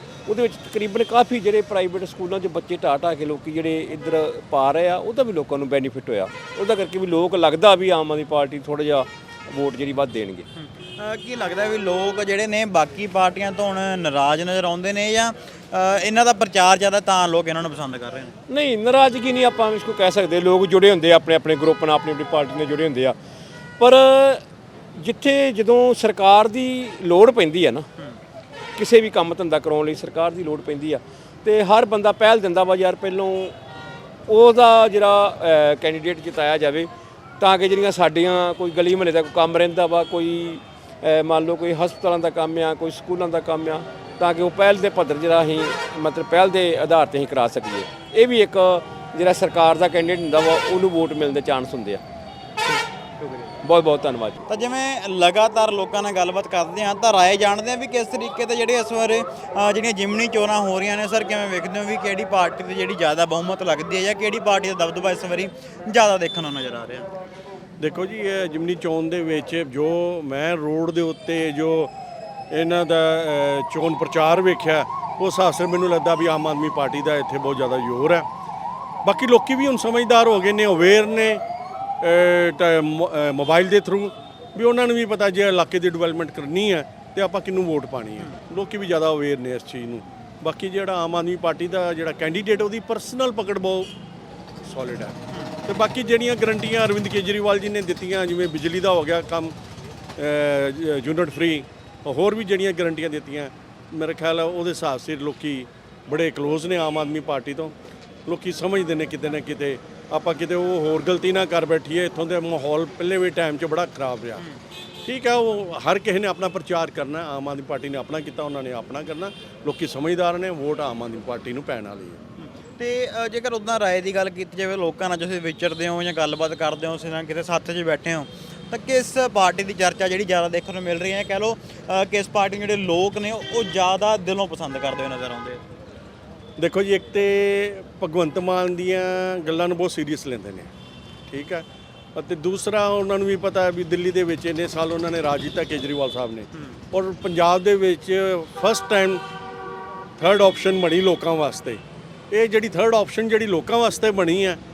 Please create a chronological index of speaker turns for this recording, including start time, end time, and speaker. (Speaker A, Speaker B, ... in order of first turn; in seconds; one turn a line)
Speaker A: 0.3-10.5
Speaker B: 10.6-18.4
Speaker A: 18.5-23.2
Speaker A: 23.8-24.4
Speaker A: 25.0-27.9
Speaker A: 28.8-33.5
Speaker A: 34.3-52.0
Speaker A: 53.4-54.4
Speaker B: 54.5-67.1
Speaker C: 67.8-71.9
Speaker C: 72.5-78.3
Speaker C: 79.0-81.4
Speaker C: 82.0-93.9
Speaker C: 94.6-99.5
Speaker C: 100.2-107.7
Speaker C: 108.3-114.4
Speaker C: 115.1-122.2
Speaker B: 122.4-135.6
Speaker C: 136.6-140.7
Speaker C: 141.3-149.2
Speaker C: 150.2-154.6